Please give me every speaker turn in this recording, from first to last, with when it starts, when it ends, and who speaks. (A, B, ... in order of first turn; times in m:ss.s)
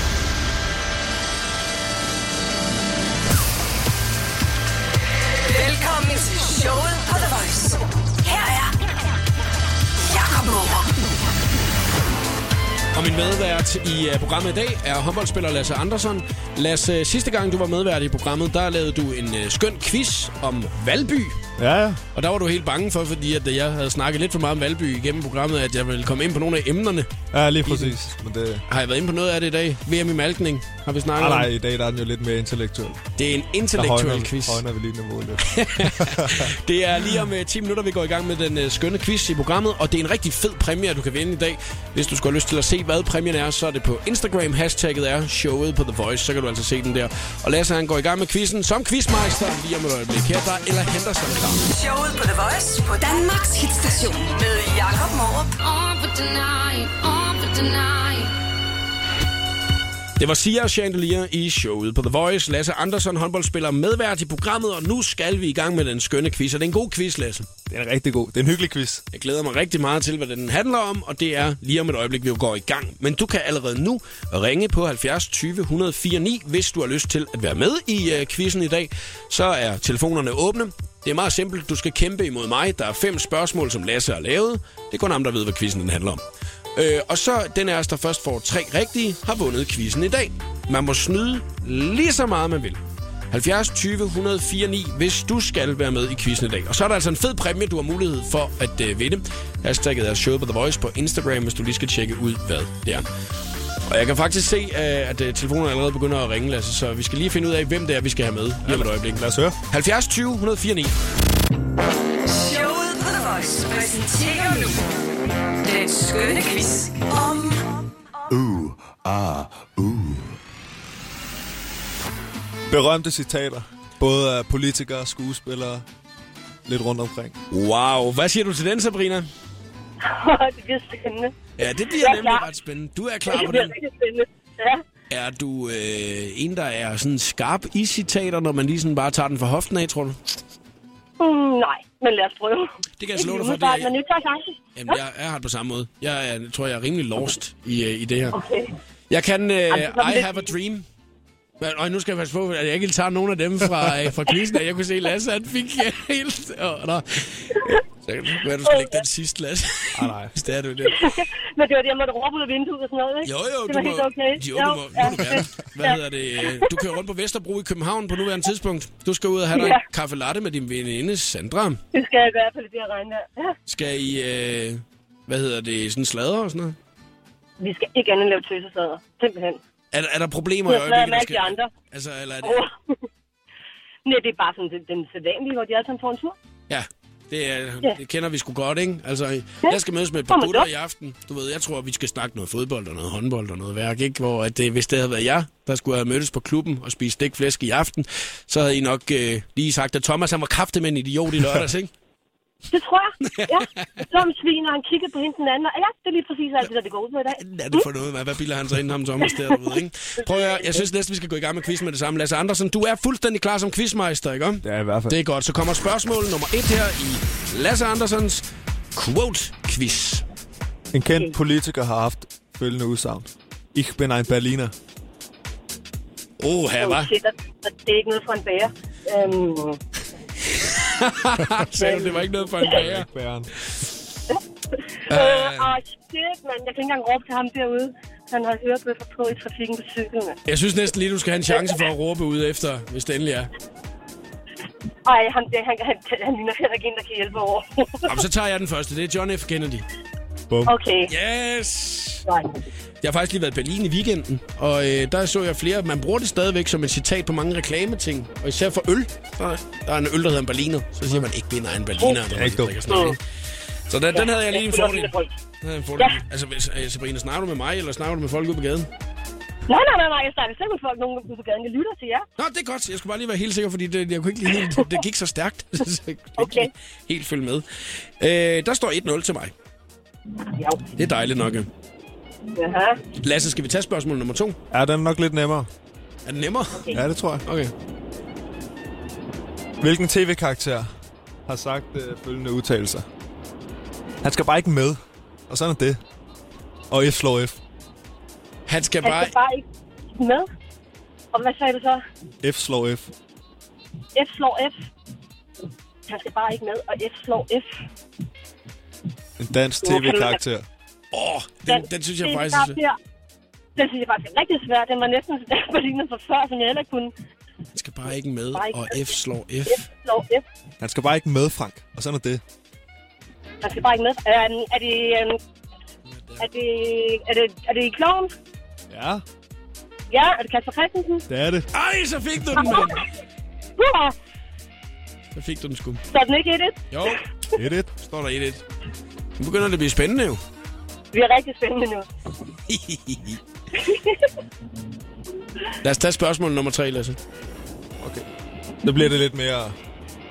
0:05.4-0:08.7 A
0:10.0-0:11.0 A
0:12.9-0:21.4 B
0:21.6-0:22.0 C
0:22.1-0:27.1 B
0:27.3-0:28.6 C
0:27.6-0:28.0 B
0:28.7-0:31.5 B
0:31.2-0:33.1 C
0:33.2-0:34.6 B
0:33.7-0:36.5 C
0:35.4-0:51.6 B
0:51.7-0:55.6 A
0:55.6-0:58.3 D
1:00.2-1:07.5 B
1:07.7-1:09.0 C
1:09.1-1:26.2 B
1:26.8-1:43.0 B
1:43.9-1:51.0 B
1:48.6-1:49.6 C
1:52.2-1:54.8 A
1:55.6-1:57.8 A
1:58.4-2:00.0 C
2:02.7-2:05.8 C
2:06.6-2:07.4 C
2:07.5-2:09.3 B
2:10.0-2:11.3 E
2:11.6-2:13.7 B
2:12.0-2:12.4 E
2:13.3-2:14.8 E
2:15.1-2:20.4 B
2:21.2-2:25.0 E
2:23.0-2:23.9 B
2:24.7-2:28.4 B
2:28.3-2:28.7 E
2:29.1-2:30.9 B
2:29.7-2:30.5 E
2:31.6-2:41.2 B
2:38.6-2:39.0 E
2:39.9-2:40.3 C
2:40.9-2:46.9 E
2:43.2-2:51.8 B
2:49.5-2:49.8 E
2:51.9-2:53.6 E
2:53.7-2:56.8 B
2:57.6-2:59.6 E
2:59.9-3:02.6 B
3:00.6-3:01.7 E
3:02.4-3:03.0 E
3:04.0-3:06.4 E
3:06.7-3:21.9 B
3:10.3-3:10.7 E
3:22.7-3:27.8 E
3:23.2-3:23.9 B
3:27.4-3:38.4 B
3:29.3-3:29.6 E
3:30.4-3:30.8 E
3:34.6-3:35.2 C
3:39.0-3:40.2 B
3:40.9-3:44.7 C
3:46.4-3:47.1 B
3:46.8-3:49.8 E
3:50.4-3:53.1 B
3:51.8-3:52.3 E
3:52.6-3:53.5 C
3:55.1-3:55.8 B
3:55.1-4:00.4 E
4:00.5-4:03.5 B
4:01.5-4:01.8 E
4:05.0-4:08.1 E
4:08.0-4:09.8 B
4:10.5-4:10.7 C
4:10.6-4:11.1 E
4:11.1-4:12.2 B
4:12.3-4:12.5 E
4:13.0-4:23.2 B
4:22.3-4:23.1 C
4:22.9-4:23.1 E
4:23.9-4:28.9 B
4:24.1-4:25.3 E
4:29.7-4:32.2 E
4:32.4-4:39.5 B
4:36.4-4:36.7 E
4:40.5-4:40.8 E
4:40.9-4:41.7 B
4:42.5-4:43.0 E
4:43.2-4:44.6 B
4:44.7-4:45.7 C
4:46.2-4:46.9 B
4:46.9-4:47.4 C
4:47.4-4:47.7 B
4:49.8-4:50.9 C
4:51.5-4:53.1 C
4:54.2-4:56.0 C
4:56.9-4:57.6 C
4:58.7-4:59.3 B
4:59.0-5:00.5 E
5:01.3-5:02.0 E
5:02.4-5:03.1 C
5:04.1-5:04.9 E
5:06.1-5:07.7 E
5:09.4-5:10.7 C
5:09.8-5:10.4 E
5:11.1-5:12.8 B
5:11.7-5:13.0 E
5:13.8-5:17.1 E
5:17.7-5:19.9 B
5:18.5-5:19.1 E
5:19.7-5:20.4 E
5:20.8-5:22.4 C
5:23.6-5:25.4 E
5:26.1-5:26.5 B
5:26.4-5:28.3 E
5:28.9-5:29.2 C
5:30.1-5:31.2 E
5:31.3-5:31.7 C
5:31.7-5:33.1 B
5:32.5-5:33.1 E
5:33.8-5:34.1 E
5:35.3-5:36.0 B
5:36.1-5:37.1 E
5:36.9-5:37.2 B
5:37.5-5:37.9 C
5:38.0-5:38.6 B
5:39.4-5:40.4 B
5:41.1-5:42.1 E
5:42.7-5:43.4 B
5:43.7-5:44.3 E
5:45.8-5:47.2 B
5:48.0-5:48.3 C
5:48.8-5:49.8 C